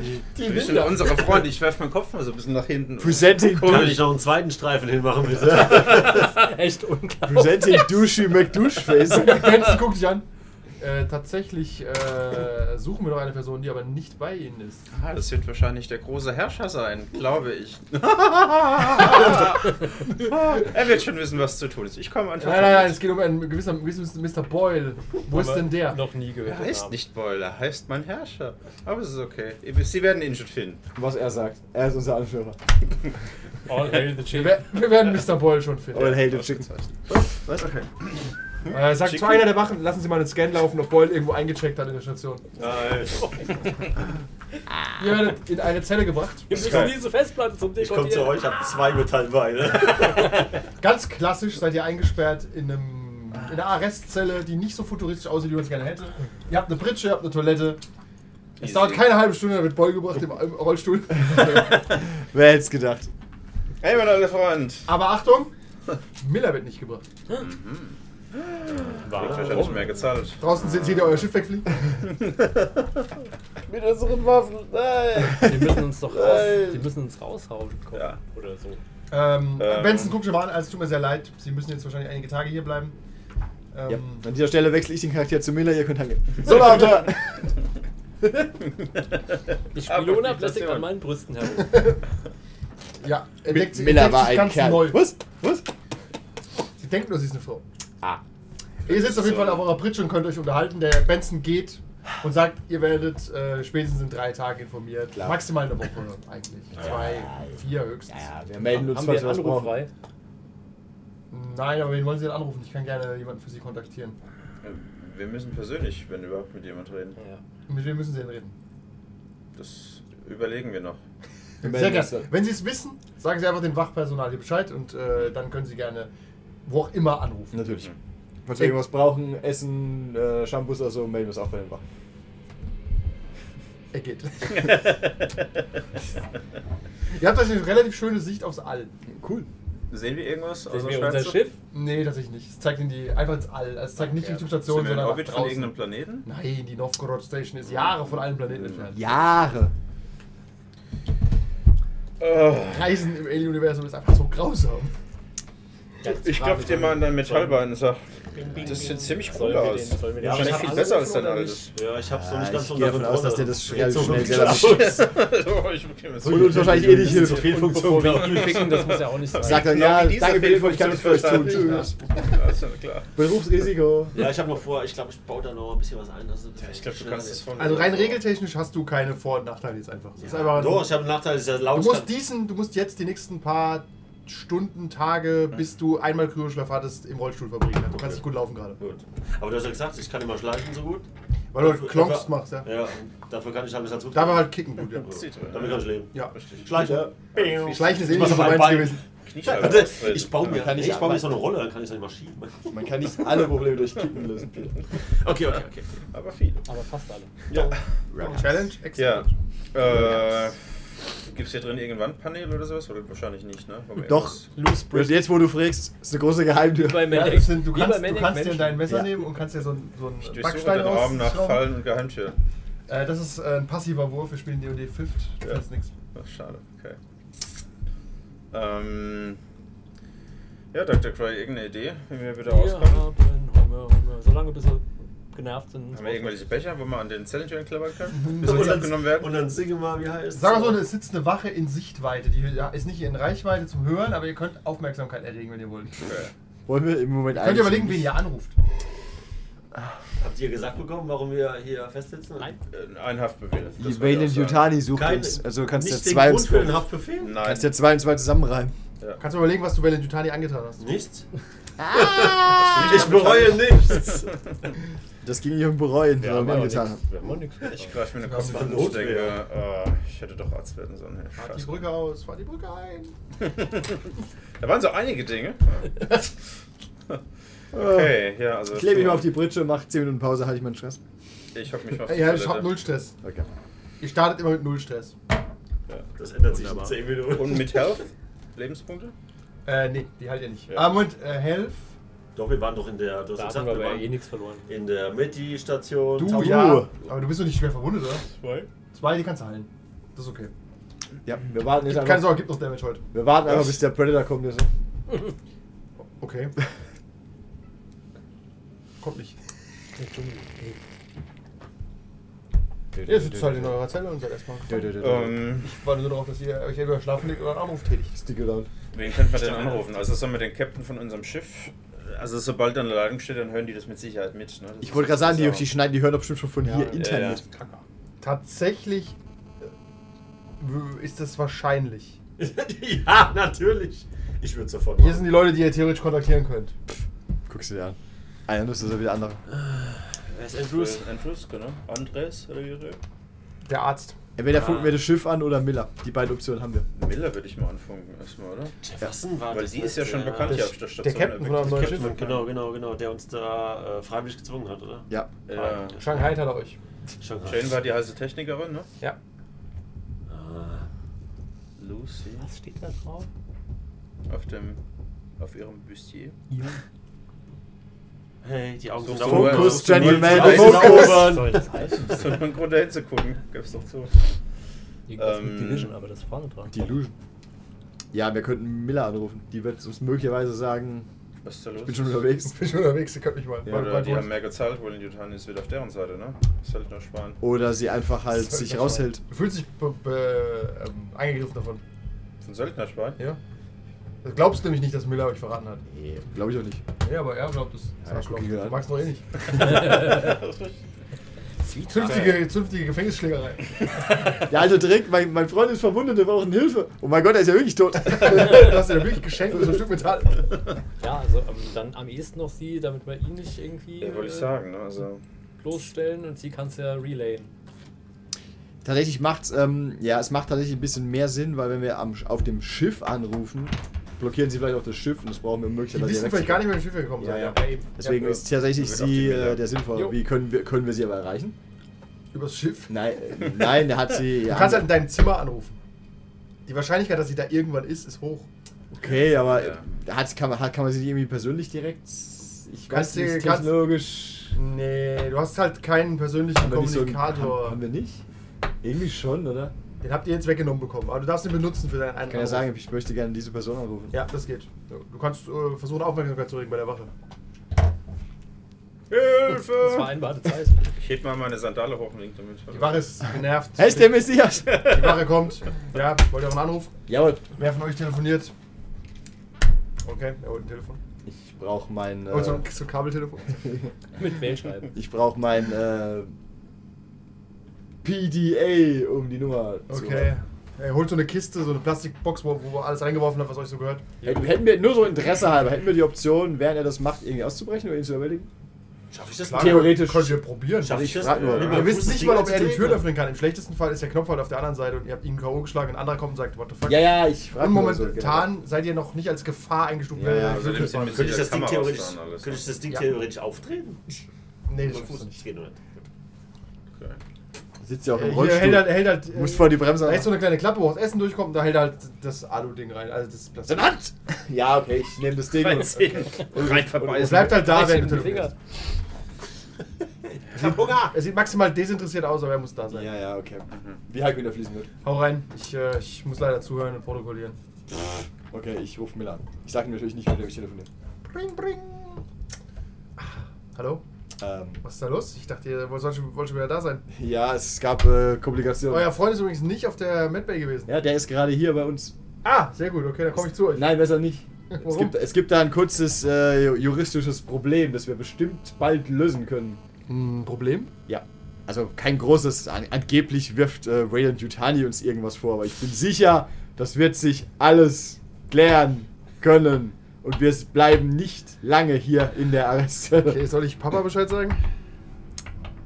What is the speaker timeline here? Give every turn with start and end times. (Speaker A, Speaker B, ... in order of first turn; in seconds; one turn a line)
Speaker A: 0.1-1.4
Speaker B: 0.3-4.0
Speaker C: 3.0-4.0
Speaker D: 3.5-6.3
Speaker A: 5.5-8.3
Speaker C: 7.2-9.5
Speaker A: 8.9-9.7
Speaker E: 9.1-10.2
Speaker E: 10.8-14.8
Speaker B: 14.9-23.0
Speaker E: 22.4-26.0
Speaker A: 25.3-27.0
Speaker B: 26.4-30.8
Speaker C: 30.9-32.6
Speaker A: 33.7-34.7
Speaker E: 34.3-36.2
Speaker C: 35.9-37.2
Speaker B: 36.0-38.1
Speaker E: 38.7-42.4
Speaker B: 38.7-39.5
Speaker D: 42.6-43.5
Speaker E: 45.0-46.5
Speaker A: 46.5-48.5
Speaker B: 46.5-47.0
Speaker D: 47.8-50.5
Speaker A: 50.1-50.5
Speaker E: 50.8-57.8
Speaker B: 58.6-59.2
Speaker E: 58.6-61.8
Speaker C: 61.3-63.1
Speaker B: 63.8-64.9
Speaker E: 64.9-65.5
Speaker E: 66.2-67.0
Speaker B: 67.3-68.0
Speaker B: 68.5-71.4
Speaker A: 69.0-70.1
Speaker D: 69.1-69.7
Speaker E: 70.4-71.7
Speaker B: 72.0-72.9
Speaker B: 73.7-76.7
Speaker A: 75.3-78.8
Speaker C: 76.1-76.5
Speaker B: 77.9-78.2
Speaker E: 79.1-83.0
Speaker B: 79.5-80.2
Speaker E: 83.7-84.3
Speaker C: 83.9-87.5
Speaker A: 89.7-91.9
Speaker B: 89.7-90.9
Speaker E: 91.6-92.0
Speaker E: 93.0-95.0
Speaker C: 93.5-95.7
Speaker E: 96.8-97.6
Speaker B: 98.8-99.7
Speaker E: 98.8-108.3
Speaker C: 105.1-105.5
Speaker C: 106.8-109.8
Speaker A: 108.7-109.9
Speaker E: 111.3-114.2
Speaker B: 114.6-117.2
Speaker E: 117.7-118.5
Speaker B: 119.5-121.0
Speaker C: 121.6-122.3
Speaker E: 121.6-126.1
Speaker E: 126.7-127.7
Speaker C: 127.5-127.9
Speaker B: 127.7-128.0
Speaker C: 128.4-131.8
Speaker E: 133.9-134.8
Speaker B: 134.4-135.4
Speaker E: 137.1-138.9
Speaker C: 139.1-139.5
Speaker B: 139.9-141.4
Speaker A: 140.7-141.6
Speaker E: 141.7-149.0
Speaker B: 144.0-146.3
Speaker B: 147.7-149.0
Speaker C: 148.9-149.7
Speaker B: 152.2-153.0
Speaker E: 152.6-154.9
Speaker A: 156.0-157.6
Speaker B: 156.1-161.7
Speaker D: 158.3-159.2
Speaker A: 158.6-161.7
Speaker D: 160.2-161.0
Speaker D: 161.7-165.1
Speaker C: 162.1-165.1
Speaker B: 163.9-167.4
Speaker D: 166.2-168.8
Speaker C: 166.2-167.6
Speaker A: 167.1-169.9
Speaker B: 168.0-173.1
Speaker C: 169.4-171.9
Speaker E: 171.3-171.9
Speaker C: 173.2-174.2
Speaker D: 174.1-178.2
Speaker B: 176.6-178.2
Speaker E: 177.6-181.0
Speaker D: 180.2-182.1
Speaker E: 181.7-188.8
Speaker D: 187.9-202.8
Speaker E: 191.5-192.7
Speaker E: 194.1-195.2
Speaker B: 195.0-197.8
Speaker C: 196.7-197.1
Speaker E: 197.7-199.0
Speaker B: 199.2-200.7
Speaker C: 200.4-201.4
Speaker C: 202.7-204.8
Speaker D: 205.2-206.0
Speaker B: 206.1-206.7
Speaker A: 206.7-207.3
Speaker D: 207.5-207.8
Speaker C: 208.1-208.4
Speaker E: 208.2-209.3
Speaker B: 208.9-210.6
Speaker C: 209.8-210.4
Speaker B: 211.2-214.5
Speaker C: 214.1-217.3
Speaker A: 214.5-215.3
Speaker A: 216.8-218.9
Speaker E: 217.1-221.7
Speaker C: 218.9-219.2
Speaker B: 220.2-222.4
Speaker E: 222.9-225.9
Speaker B: 226.1-227.0
Speaker B: 228.5-229.4
Speaker B: 230.7-233.1
Speaker A: 232.4-236.5
Speaker B: 235.9-239.4
Speaker E: 238.1-238.9
Speaker D: 238.3-240.8
Speaker E: 240.3-246.0
Speaker B: 246.0-246.3
Speaker C: 246.7-248.2
Speaker E: 247.3-248.6
Speaker D: 250.2-252.6
Speaker B: 252.7-254.8
Speaker C: 253.8-256.9
Speaker D: 254.9-257.4
Speaker B: 257.2-257.7
Speaker C: 257.4-258.7
Speaker E: 259.2-261.0
Speaker D: 260.8-261.2
Speaker C: 261.8-263.3
Speaker D: 261.9-264.4
Speaker B: 262.6-263.6
Speaker C: 265.2-267.0
Speaker A: 266.2-268.0
Speaker B: 267.7-271.9
Speaker E: 268.2-269.0
Speaker D: 268.3-269.4
Speaker E: 271.4-273.1
Speaker B: 273.4-276.3
Speaker C: 277.7-278.1
Speaker B: 277.7-279.3
Speaker C: 278.7-281.0
Speaker B: 281.5-282.8
Speaker E: 282.0-283.1
Speaker C: 283.2-283.5
Speaker E: 284.0-285.1
Speaker D: 286.2-288.0
Speaker B: 287.2-289.1
Speaker E: 289.6-291.9
Speaker D: 292.3-294.1
Speaker A: 293.3-294.6
Speaker D: 294.6-296.7
Speaker E: 296.2-298.2
Speaker C: 296.2-296.9
Speaker A: 298.3-298.7
Speaker E: 298.9-300.5
Speaker C: 301.2-302.4
Speaker E: 301.8-303.0
Speaker C: 303.1-304.7
Speaker E: 306.2-306.5
Speaker E: 309.0-309.4
Speaker A: 310.0-310.8
Speaker C: 312.9-313.8
Speaker E: 313.0-314.9
Speaker C: 314.7-315.5
Speaker B: 315.0-315.7
Speaker E: 315.6-318.2
Speaker C: 318.1-318.7
Speaker B: 318.9-325.7
Speaker D: 319.3-319.8
Speaker C: 324.8-327.4
Speaker B: 326.8-327.8
Speaker E: 328.2-329.1
Speaker E: 330.6-332.2
Speaker D: 332.4-335.4
Speaker E: 335.0-336.7
Speaker C: 337.5-339.4
Speaker D: 339.5-341.1
Speaker B: 340.7-343.0
Speaker E: 343.6-344.1
Speaker C: 344.4-346.9
Speaker B: 346.9-348.7
Speaker D: 348.8-350.7
Speaker B: 349.5-352.5
Speaker E: 350.5-352.2
Speaker D: 351.6-356.3
Speaker B: 355.5-356.1
Speaker E: 356.0-356.8
Speaker D: 357.2-357.8
Speaker B: 357.4-358.9
Speaker D: 360.3-360.9
Speaker B: 361.8-362.5
Speaker A: 362.4-363.3
Speaker B: 364.3-364.8
Speaker B: 365.4-366.4
Speaker A: 366.5-366.8
Speaker D: 368.4-371.7
Speaker B: 369.0-371.3
Speaker C: 369.2-371.5
Speaker A: 370.4-372.2
Speaker B: 372.0-374.3
Speaker A: 375.1-376.8
Speaker B: 375.2-375.9
Speaker C: 376.7-377.1
Speaker C: 378.1-381.1
Speaker B: 381.4-382.2
Speaker C: 381.8-382.6
Speaker E: 382.4-384.3
Speaker C: 383.6-384.0
Speaker B: 383.6-387.4
Speaker C: 387.4-389.2
Speaker E: 388.3-391.8
Speaker B: 392.4-393.2
Speaker E: 394.2-395.8
Speaker C: 395.9-396.8
Speaker E: 397.0-400.0
Speaker C: 398.0-398.8
Speaker B: 399.5-400.7
Speaker A: 399.7-400.3
Speaker A: 401.6-402.4
Speaker E: 401.9-403.9
Speaker B: 402.0-402.4
Speaker C: 404.5-408.7
Speaker E: 408.0-410.5
Speaker A: 411.0-414.5
Speaker B: 414.0-415.2
Speaker A: 415.6-417.5
Speaker C: 418.8-431.6
Speaker E: 425.9-428.4
Speaker A: 427.6-427.8
Speaker B: 428.7-429.7
Speaker E: 432.3-432.9
Speaker C: 432.9-435.0
Speaker E: 434.5-435.8
Speaker E: 436.6-438.5
Speaker C: 438.9-444.6
Speaker B: 439.0-439.8
Speaker E: 442.9-444.0
Speaker E: 444.5-447.8
Speaker C: 446.5-448.2
Speaker C: 448.8-449.7
Speaker E: 450.0-452.7
Speaker C: 452.3-454.3
Speaker E: 454.1-457.1
Speaker B: 459.1-460.1
Speaker A: 459.5-460.9
Speaker B: 460.9-463.1
Speaker E: 462.7-466.9
Speaker C: 463.8-465.2
Speaker C: 467.1-467.5
Speaker E: 467.6-468.5
Speaker E: 470.0-471.0
Speaker C: 471.2-472.6
Speaker E: 472.3-473.7
Speaker A: 474.2-474.9
Speaker C: 474.9-476.3
Speaker C: 478.0-480.3
Speaker E: 479.9-484.1
Speaker C: 484.2-488.5
Speaker D: 489.1-490.0
Speaker E: 489.4-501.4
Speaker C: 489.5-492.1
Speaker D: 490.8-493.1
Speaker B: 491.2-491.9
Speaker C: 496.9-498.5
Speaker C: 500.1-501.0
Speaker B: 500.4-502.7
Speaker D: 501.1-504.2
Speaker E: 504.7-505.4
Speaker D: 504.8-506.0
Speaker B: 506.9-507.2
Speaker C: 507.8-510.4
Speaker E: 508.1-514.0
Speaker C: 513.7-516.8
Speaker B: 515.5-518.0
Speaker A: 516.5-518.5
Speaker E: 517.0-518.5
Speaker D: 520.5-521.1
Speaker E: 520.6-523.1
Speaker C: 522.9-524.9
Speaker B: 523.7-524.0
Speaker E: 525.0-527.6
Speaker C: 528.5-530.9
Speaker E: 531.3-532.2
Speaker E: 533.2-534.0
Speaker C: 534.4-534.8
Speaker E: 534.8-537.0
Speaker C: 537.1-539.1
Speaker E: 538.9-540.9
Speaker C: 540.9-542.1
Speaker E: 542.4-545.2
Speaker C: 543.3-549.8
Speaker E: 550.1-550.9
Speaker C: 551.1-563.4
Speaker E: 563.2-564.6